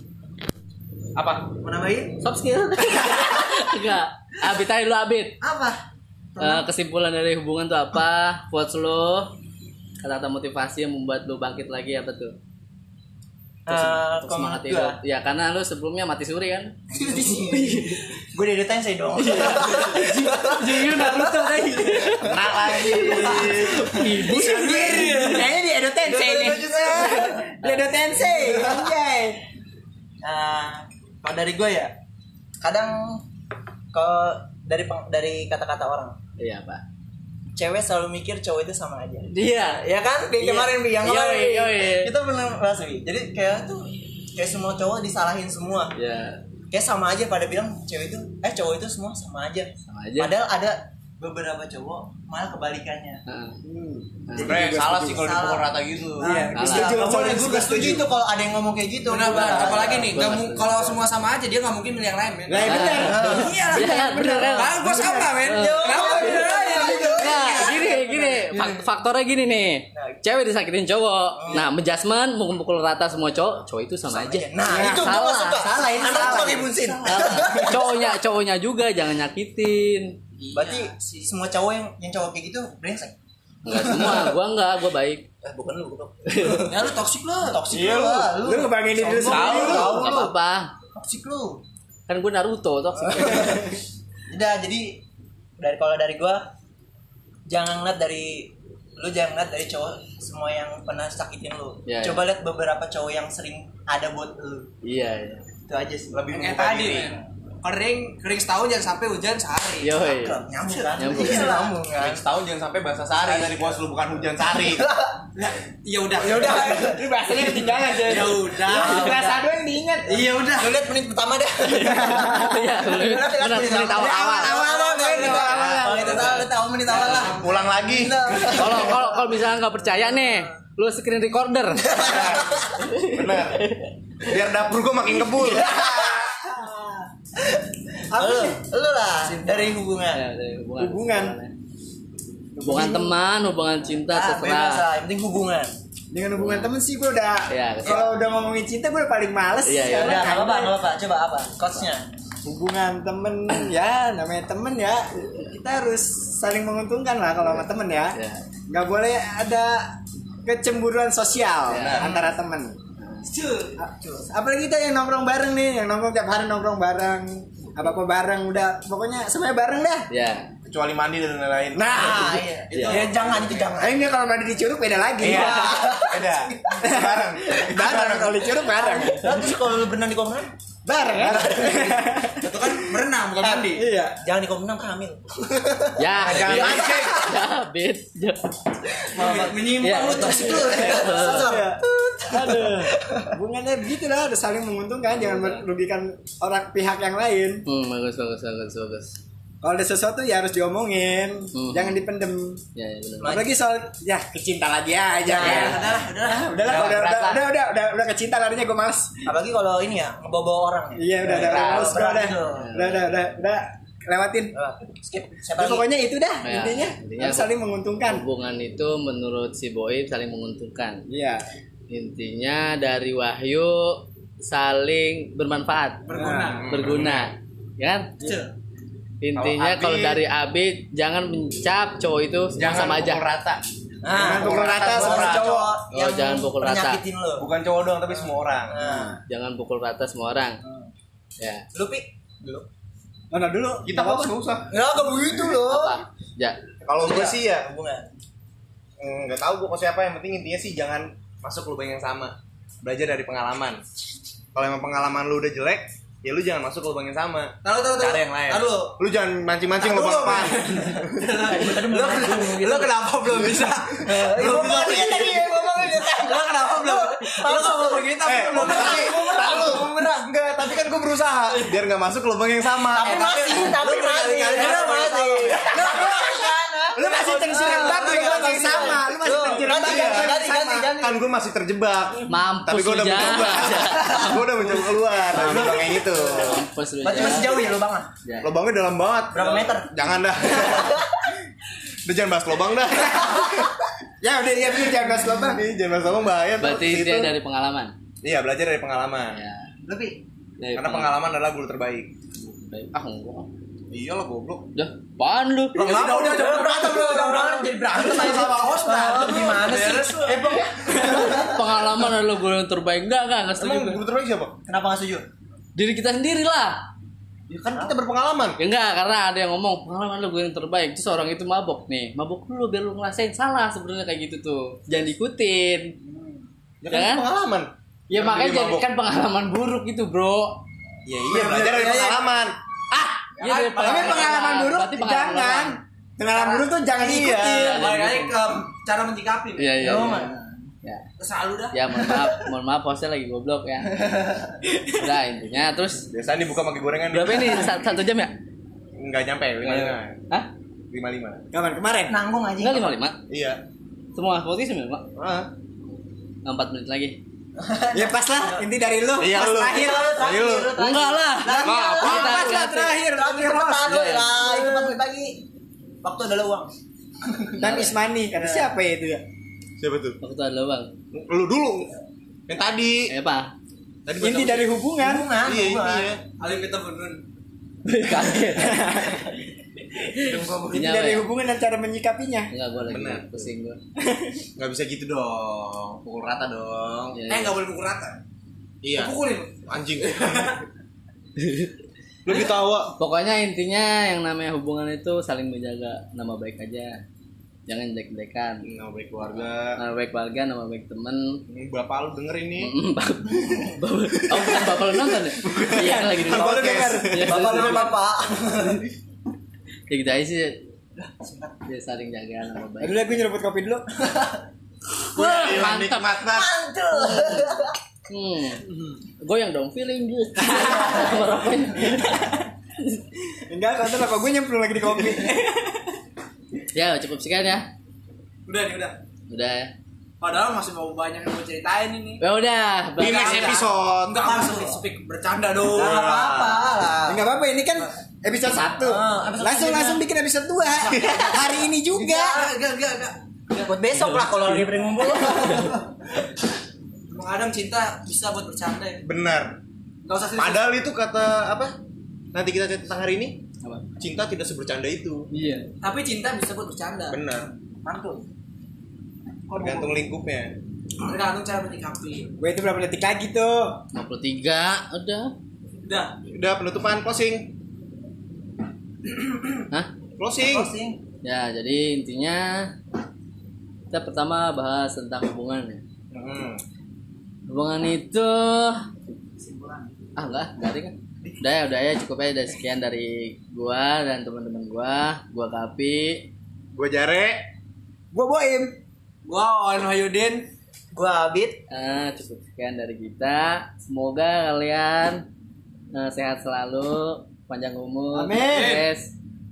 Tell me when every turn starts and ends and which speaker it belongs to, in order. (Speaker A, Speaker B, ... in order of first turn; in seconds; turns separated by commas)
Speaker A: 1.6-2.2, Speaker B: 2.2-5.4, Speaker A: 5.4-5.8, Speaker A: 6.3-6.7, Speaker B: 6.4-9.3, Speaker B: 10.0-12.3, Speaker A: 13.7-15.0, Speaker B: 13.7-16.7, Speaker A: 16.9-25.5, Speaker B: 17.5-18.0, Speaker B: 19.2-25.3, Speaker C: 22.2-23.9, Speaker D: 24.0-29.4, Speaker E: 24.3-25.4, Speaker A: 26.0-27.5, Speaker C: 26.4-26.9, Speaker B: 26.8-27.9, Speaker A: 28.1-28.9, Speaker A: 30.2-31.9, Speaker A: 32.6-33.2, Speaker A: 33.9-36.2, Speaker B: 36.4-36.8, Speaker A: 37.5-45.9, Speaker B: 39.3-42.1, Speaker B: 45.9-46.4, Speaker A: 46.7-53.2, Speaker B: 49.9-50.3, Speaker B: 53.2-53.5, Speaker D: 53.6-55.2, Speaker B: 54.3-54.6, Speaker A: 54.3-55.6, Speaker C: 54.4-56.5, Speaker A: 56.2-60.1, Speaker D: 56.2-58.1, Speaker B: 56.5-57.0, Speaker E: 59.0-67.8, Speaker B: 59.3-61.0, Speaker D: 62.5-65.3, Speaker C: 62.6-63.4, Speaker B: 62.6-80.2, Speaker A: 63.0-63.6, Speaker A: 64.8-68.8, Speaker D: 66.1-67.0, Speaker A: 69.9-70.2, Speaker A: 71.4-71.7, Speaker A: 74.1-78.1, Speaker D: 74.6-75.1, Speaker E: 76.0-77.5, Speaker D: 76.2-76.6, Speaker E: 80.4-81.3, Speaker A: 80.5-83.1, Speaker B: 83.6-85.2, Speaker A: 83.7-84.3, Speaker A: 85.4-90.3, Speaker B: 86.2-86.7, Speaker E: 86.4-87.6, Speaker C: 87.6-87.9, Speaker D: 87.7-90.1, Speaker B: 89.1-90.7, Speaker C: 89.4-90.2, Speaker A: 90.9-91.6, Speaker B: 92.1-93.7, Speaker A: 93.1-93.6, Speaker A: 94.3-95.0, Speaker A: 95.6-96.5, Speaker A: 97.5-104.7, Speaker B: 101.9-102.2, Speaker B: 104.8-105.4, Speaker A: 105.7-106.2, Speaker C: 106.1-107.1, Speaker E: 106.3-110.0, Speaker B: 109.8-110.4, Speaker A: 110.0-112.2, Speaker E: 110.7-111.2, Speaker B: 111.0-111.7, Speaker C: 111.3-114.9, Speaker E: 113.3-113.5, Speaker A: 114.5-115.2, Speaker E: 115.3-116.9, Speaker A: 116.1-117.6, Speaker D: 116.2-120.3, Speaker E: 117.9-119.1, Speaker A: 118.1-119.4, Speaker E: 120.0-120.7, Speaker A: 120.3-130.5, Speaker B: 121.7-125.2, Speaker D: 121.8-122.7, Speaker D: 124.0-126.1, Speaker E: 124.5-127.8, Speaker C: 125.2-126.0, Speaker B: 126.1-126.4, Speaker C: 126.9-128.2, Speaker B: 128.5-133.9, Speaker A: 131.9-132.8, Speaker C: 132.0-133.6, Speaker C: 134.2-135.7, Speaker A: 135.3-140.2, Speaker D: 138.1-138.6, Speaker E: 139.2-139.8, Speaker B: 140.1-141.5, Speaker D: 140.8-141.4, Speaker D: 142.6-143.1, Speaker B: 142.6-144.8, Speaker A: 144.1-145.7, Speaker D: 146.1-150.8, Speaker B: 146.4-146.7, Speaker B: 147.5-148.1, Speaker A: 147.8-148.1, Speaker B: 149.6-150.4, Speaker A: 149.9-152.1, Speaker D: 152.4-158.2, Speaker B: 157.4-158.4, Speaker D: 158.7-162.8, Speaker B: 161.7-162.0, Speaker C: 161.7-162.3, Speaker B: 163.0-163.2, Speaker E: 163.2-163.7, Speaker D: 163.8-170.1, Speaker A: 163.9-164.2, Speaker B: 170.1-170.5, Speaker C: 170.6-172.1, Speaker A: 171.8-174.1, Speaker D: 171.8-172.4, Speaker E: 172.7-173.6, Speaker B: 172.7-173.1, Speaker D: 173.7-176.0, Speaker C: 175.2-178.4, Speaker A: 175.2-176.9, Speaker D: 176.8-179.5, Speaker A: 178.7-180.5, Speaker D: 180.8-182.7, Speaker C: 181.2-181.9, Speaker A: 181.2-182.1, Speaker E: 182.4-183.8, Speaker A: 183.4-187.2, Speaker D: 183.7-184.2, Speaker B: 186.0-188.5, Speaker C: 186.2-187.2, Speaker D: 186.4-186.8, Speaker E: 189.1-191.1, Speaker A: 189.1-193.3, Speaker B: 189.8-191.5, Speaker D: 191.2-197.6, Speaker B: 195.1-195.6, Speaker B: 197.7-199.2, Speaker D: 199.6-202.6, Speaker B: 201.5-202.0, Speaker B: 202.8-203.5, Speaker D: 203.2-209.2, Speaker A: 205.2-206.9, Speaker B: 205.4-205.8, Speaker E: 205.7-206.0, Speaker C: 206.6-207.4, Speaker A: 209.2-212.7, Speaker D: 210.9-214.5, Speaker C: 211.2-211.5, Speaker B: 211.5-211.9, Speaker B: 212.6-213.1, Speaker A: 214.5-215.9, Speaker D: 215.6-218.2, Speaker B: 216.4-217.5, Speaker B: 218.0-221.0, Speaker D: 221.1-221.4, Speaker B: 221.9-226.0, Speaker E: 226.1-226.7, Speaker D: 226.2-226.5, Speaker C: 226.3-227.3, Speaker B: 226.7-228.1, Speaker E: 228.2-228.5, Speaker B: 229.2-233.2, Speaker C: 229.3-230.2, Speaker C: 232.5-233.6, Speaker A: 234.0-237.5, Speaker C: 234.1-235.7, Speaker D: 234.2-235.6, Speaker B: 235.9-237.0, Speaker C: 237.4-239.2, Speaker A: 238.1-239.2, Speaker B: 239.3-240.6, Speaker A: 240.6-240.9, Speaker B: 241.4-241.6, Speaker A: 241.7-242.7, Speaker D: 243.3-244.3, Speaker C: 243.8-244.7, Speaker A: 244.7-246.0, Speaker B: 245.4-246.6, Speaker C: 246.8-247.7, Speaker A: 247.0-248.1, Speaker C: 249.0-253.8, Speaker C: 254.5-261.0, Speaker E: 257.6-258.9, Speaker E: 259.8-264.5, Speaker A: 261.3-262.9, Speaker A: 263.5-270.3, Speaker C: 264.3-265.5, Speaker E: 266.1-270.1, Speaker C: 268.2-275.1, Speaker E: 271.4-271.8, Speaker E: 272.8-276.3, Speaker A: 272.9-281.2, Speaker D: 275.9-276.3, Speaker D: 276.9-280.9, Speaker E: 277.3-278.4, Speaker C: 278.2-286.6, Speaker B: 282.3-287.7, Speaker A: 283.7-288.1, Speaker B: 288.2-288.5, Speaker C: 288.4-291.0, Speaker A: 289.3-289.9, Speaker A: 290.4-291.3, Speaker C: 292.1-293.7, Speaker A: 293.1-293.6, Speaker D: 294.2-295.6, Speaker C: 295.4-297.3, Speaker B: 296.6-297.9, Speaker C: 298.2-299.4, Speaker B: 299.3-299.7, Speaker A: 299.8-300.2, Speaker B: 300.6-301.2, Speaker C: 300.7-302.1, Speaker B: 302.3-303.5, Speaker C: 303.9-304.7, Speaker B: 304.7-306.1, Speaker C: 305.8-306.9, Speaker A: 305.8-311.6, Speaker E: 305.8-307.5, Speaker C: 307.5-309.1, Speaker E: 308.1-311.4, Speaker B: 311.0-314.0, Speaker C: 313.6-314.6, Speaker A: 314.6-315.2, Speaker B: 315.8-316.8, Speaker C: 317.5-318.6, Speaker B: 318.6-325.9, Speaker A: 326.0-326.4, Speaker C: 326.8-328.9, Speaker B: 326.9-327.2, Speaker B: 328.1-330.6, Speaker C: 331.1-332.6, Speaker A: 331.3-332.1, Speaker B: 333.3-335.8, Speaker E: 333.4-334.5, Speaker D: 333.8-337.9, Speaker C: 337.0-337.8, Speaker B: 337.5-338.3, Speaker E: 337.6-340.2, Speaker B: 339.6-341.0, Speaker A: 339.8-340.5, Speaker E: 341.2-341.8, Speaker B: 341.7-344.3, Speaker B: 344.9-346.1, Speaker C: 346.1-347.8, Speaker B: 347.1-348.3, Speaker C: 349.0-350.2, Speaker B: 349.6-350.5, Speaker C: 350.9-351.4, Speaker D: 351.5-352.2, Speaker A: 352.1-352.9, Speaker B: 352.6-353.2, Speaker C: 353.3-353.6, Speaker B: 354.1-355.1, Speaker C: 355.2-355.5, Speaker B: 356.4-357.2, Speaker A: 357.6-358.7, Speaker D: 357.9-360.4, Speaker C: 359.2-360.7, Speaker A: 359.6-365.4, Speaker B: 360.8-362.8, Speaker C: 361.5-362.5, Speaker D: 361.5-365.0, Speaker B: 363.9-364.3, Speaker A: 366.0-366.7, Speaker A: 367.2-368.7, Speaker B: 367.6-367.9, Speaker D: 367.6-369.2, Speaker C: 369.8-370.2, Speaker B: 370.2-370.9, Speaker C: 371.1-371.9, Speaker C: 372.5-373.1, Speaker B: 373.1-373.5, Speaker C: 374.0-374.8, Speaker D: 374.2-375.3, Speaker A: 375.0-376.1, Speaker C: 375.4-376.2, Speaker E: 376.4-377.2, Speaker B: 377.8-379.3, Speaker D: 378.1-379.3, Speaker B: 379.9-381.3, Speaker D: 380.6-382.5, Speaker B: 382.5-383.8, Speaker C: 382.9-383.5, Speaker C: 384.6-387.2, Speaker B: 387.1-387.6, Speaker E: 387.3-388.2, Speaker C: 388.8-389.1, Speaker E: 388.9-390.6, Speaker C: 389.6-390.6, Speaker B: 391.4-391.7, Speaker C: 392.2-392.9, Speaker B: 393.0-397.0, Speaker B: 397.7-398.6, Speaker C: 398.6-399.8, Speaker B: 399.4-401.4, Speaker C: 401.5-402.7, Speaker B: 402.6-407.9, Speaker C: 405.4-407.9, Speaker D: 405.5-407.9, Speaker A: 407.1-408.9, Speaker B: 409.9-410.6, Speaker A: 411.0-411.6, Speaker B: 411.6-413.2, Speaker D: 412.8-413.8, Speaker C: 415.1-416.5, Speaker B: 415.1-416.0, Speaker A: 416.2-417.8, Speaker B: 417.2-417.5, Speaker B: 418.1-418.6, Speaker B: 419.2-423.0, Speaker D: 421.9-422.4, Speaker D: 423.5-425.8, Speaker B: 426.7-427.6, Speaker E: 428.4-428.9, Speaker B: 429.3-429.7, Speaker E: 430.2-432.2, Speaker B: 432.2-433.6, Speaker C: 433.0-434.3, Speaker E: 433.0-436.5, Speaker A: 434.2-434.8, Speaker A: 435.6-437.2, Speaker C: 435.9-436.5, Speaker D: 437.1-442.4, Speaker A: 438.7-440.0, Speaker C: 440.9-441.4, Speaker A: 440.9-441.3, Speaker E: 441.9-443.8, Speaker A: 442.1-442.4, Speaker A: 443.6-445.9, Speaker B: 444.0-444.6, Speaker E: 447.1-449.0, Speaker C: 449.0-449.6, Speaker E: 450.0-450.6, Speaker C: 450.4-451.7, Speaker C: 452.3-453.4, Speaker C: 454.0-455.3, Speaker B: 455.3-455.7, Speaker E: 455.8-457.4, Speaker C: 457.1-457.5, Speaker A: 457.8-458.2, Speaker A: 459.5-459.9, Speaker C: 459.5-460.5, Speaker E: 461.0-462.3, Speaker D: 462.4-463.8, Speaker B: 463.9-465.3, Speaker E: 465.8-466.1, Speaker C: 466.2-467.5, Speaker C: 470.2-470.7, Speaker A: 470.4-471.0, Speaker B: 471.2-472.7, Speaker B: 473.9-475.8, Speaker C: 476.1-476.6, Speaker B: 477.5-478.8, Speaker A: 479.4-479.9, Speaker B: 480.1-486.3, Speaker C: 486.7-487.4, Speaker D: 488.1-488.8, Speaker E: 489.2-490.5, Speaker A: 490.9-491.6, Speaker B: 491.7-495.2, Speaker B: 495.9-499.1, Speaker D: 498.1-498.8, Speaker E: 498.5-498.9